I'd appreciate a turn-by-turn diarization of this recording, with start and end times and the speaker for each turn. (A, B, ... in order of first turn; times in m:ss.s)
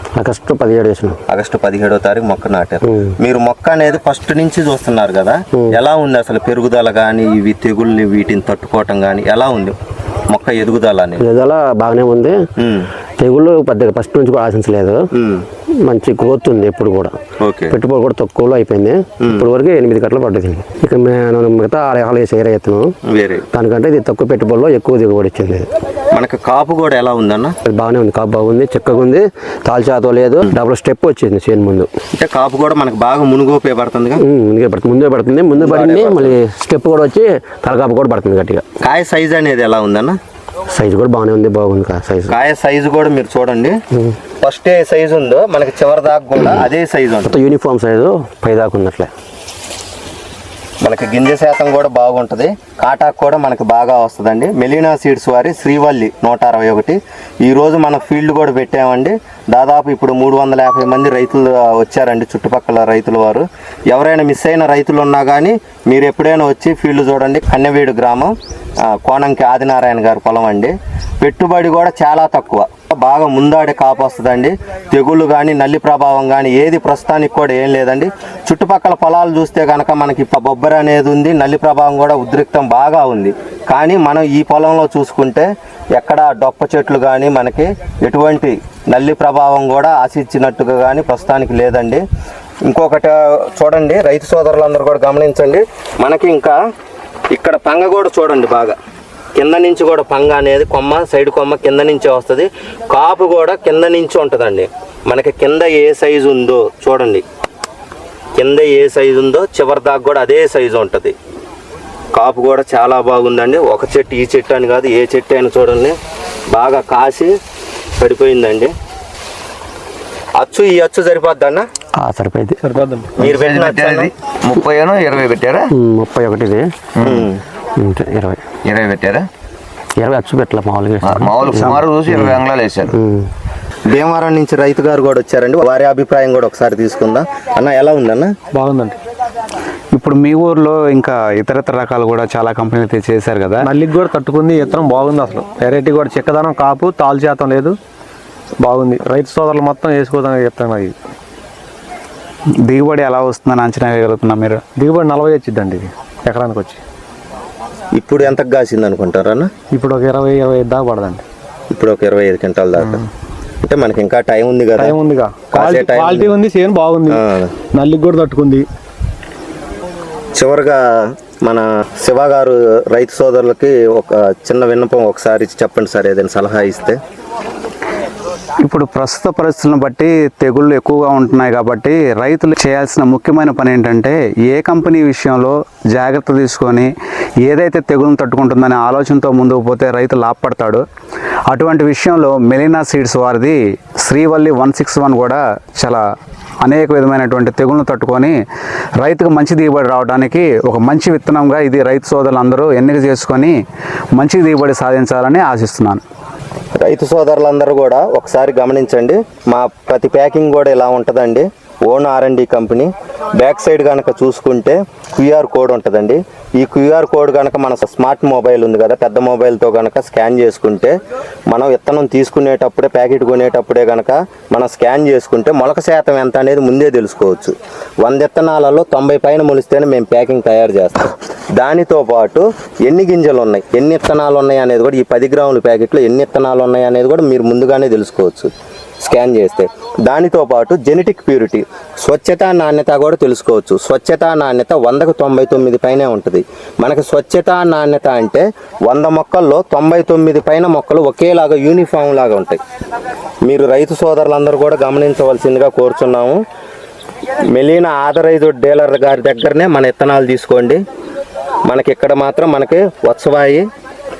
0:00.2-0:01.2 A
0:01.3-0:09.7 B
0:10.3-0:11.2 B
0:11.2-0:12.4 A
0:12.6-0:12.9 B
0:13.2-0:15.0 A
0:15.1-0:15.4 B
0:15.8-0:17.1 A
0:17.4-0:17.8 B
0:17.7-0:22.9 A
0:19.2-0:19.5 B
0:23.0-0:23.4 B
0:23.5-0:25.7 A
0:26.1-0:27.5 B
0:27.7-0:31.9 A
0:32.1-0:34.2 B
0:34.2-0:38.6 A
0:35.6-0:36.4 B
0:38.8-0:40.2 B
0:40.7-0:42.4 A
0:42.3-0:43.8 B
0:44.4-0:47.4 B
0:47.2-0:49.1 A
0:50.8-1:32.0 B
1:32.6-1:36.6 B
1:37.3-1:38.8 B
1:39.4-1:47.2 B
1:48.4-1:51.1 B
1:52.1-1:56.0 B
1:56.5-1:57.3 B
1:58.0-1:58.7 B
2:00.4-2:01.7 B
2:02.0-2:02.6 A
2:02.6-2:03.1 C
2:03.2-2:04.1 B
2:03.2-2:05.7 D
2:05.7-2:06.7 A
2:07.0-2:07.3 D
2:07.0-2:07.4 B
2:07.8-2:08.4 A
2:08.6-2:09.3 D
2:10.0-2:13.3 A
2:11.0-2:12.9 D
2:13.9-2:18.3 B
2:18.5-2:18.9 C
2:19.9-2:23.6 E
2:23.6-2:27.8 C
2:28.6-2:30.9 C
2:32.6-2:34.6 E
2:34.8-2:36.8 C
2:38.0-2:39.5 B
2:39.7-2:41.2 C
2:41.7-2:43.0 B
2:43.6-2:45.0 B
2:44.8-2:47.2 C
2:45.5-2:46.4 B
2:47.1-2:47.5 B
2:47.7-2:48.6 C
2:50.3-2:50.8 B
2:51.4-2:57.0 B
2:58.6-3:06.9 E
3:07.4-3:10.8 E
3:11.5-3:16.0 E
3:16.6-3:18.4 E
3:19.0-3:23.6 E
3:24.2-3:26.0 E
3:26.8-3:40.9 B
3:41.5-3:58.5 B
3:59.0-4:12.6 B
4:13.4-4:16.4 B
4:17.5-4:20.8 B
4:21.7-4:23.6 B